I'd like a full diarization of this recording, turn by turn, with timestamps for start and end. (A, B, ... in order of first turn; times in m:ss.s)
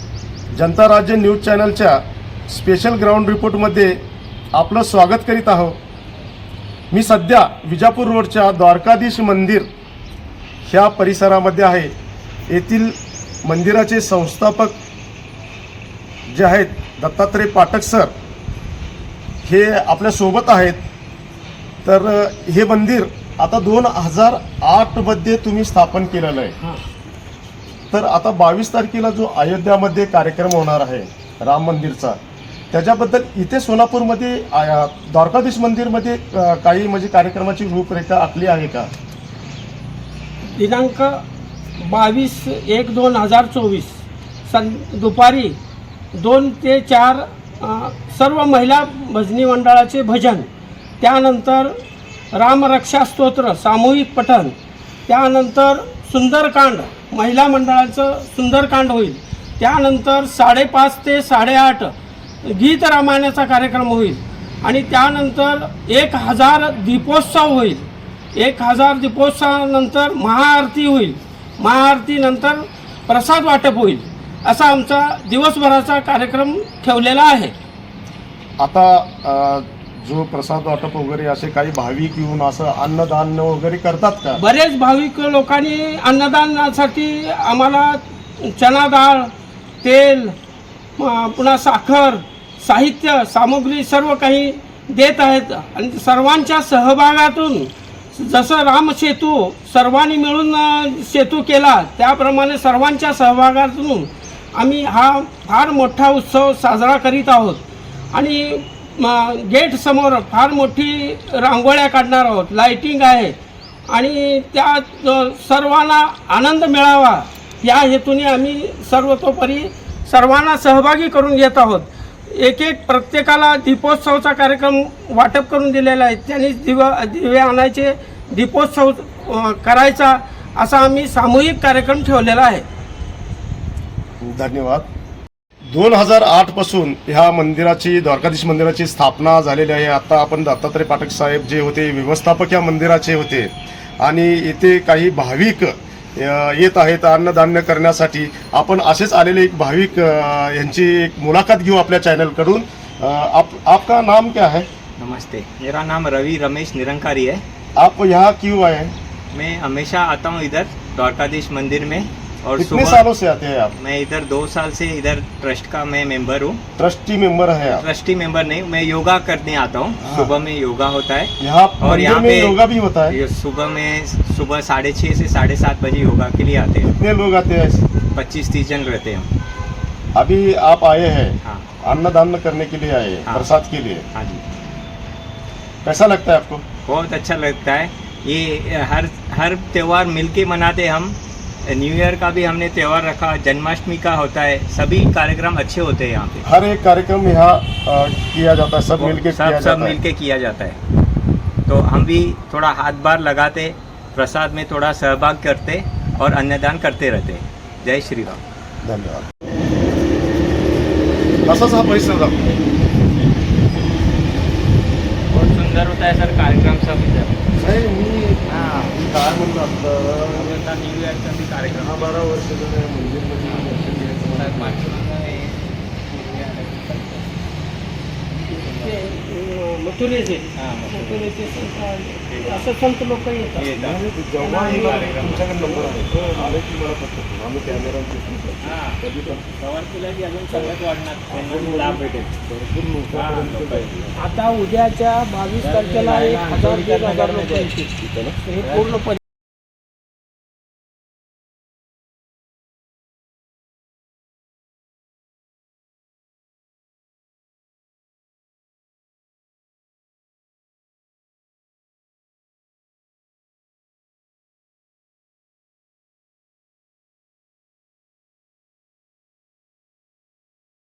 0:00.5-0:04.0 A
0:04.5-0:05.8 A
0:06.9-0:09.7 A
0:10.6-0:11.9 A
0:12.5-0:14.8 A
0:16.3-0:18.1 A
0:19.4-0:20.8 A
0:21.8-0:26.6 A
0:27.9-0:32.2 A
0:32.7-0:38.9 A
0:40.6-0:41.2 B
0:41.8-0:44.0 B
0:44.5-0:45.6 B
0:46.1-0:50.5 B
0:51.0-0:51.7 B
0:52.3-0:54.5 B
0:55.1-1:01.9 B
1:02.5-1:07.9 B
1:08.4-1:17.5 B
1:18.6-1:24.4 A
1:24.4-1:29.3 B
1:29.8-1:30.3 B
1:31.0-1:44.0 B
1:44.6-1:47.6 B
1:48.1-1:53.3 B
1:53.9-2:01.8 B
2:02.4-2:12.6 B
2:14.2-2:14.9 A
2:15.7-2:34.7 A
2:35.0-2:37.4 C
2:37.8-2:38.9 A
2:39.3-2:43.0 C
2:42.6-2:43.8 A
2:43.8-2:46.6 C
2:46.8-2:47.8 A
2:47.7-2:56.9 C
2:50.0-2:50.3 A
2:51.4-2:53.2 A
2:56.9-2:57.8 A
2:58.1-2:59.3 C
3:00.1-3:04.0 A
3:04.1-3:04.4 C
3:05.8-3:06.6 A
3:06.8-3:16.4 C
3:16.4-3:20.0 A
3:19.0-3:20.8 C
3:21.6-3:28.4 C
3:28.8-3:29.3 A
3:31.4-3:32.4 A
3:35.3-3:37.4 C
3:37.6-3:40.6 A
3:38.5-3:39.0 C
3:40.3-3:42.2 C
3:41.8-3:45.1 A
3:43.4-3:47.3 C
3:48.4-3:49.1 C
3:49.1-3:51.1 B
3:50.6-3:52.7 C
3:51.8-3:53.5 B
3:53.5-3:54.1 C
3:53.8-3:59.4 A
3:54.6-3:56.1 C
3:58.6-4:02.3 C
4:00.5-4:00.8 A
4:01.3-4:04.2 A
4:03.1-4:04.1 C
4:04.2-4:05.6 B
4:05.6-4:07.7 C
4:07.2-4:07.9 B
4:08.0-4:08.4 A
4:08.6-4:09.0 C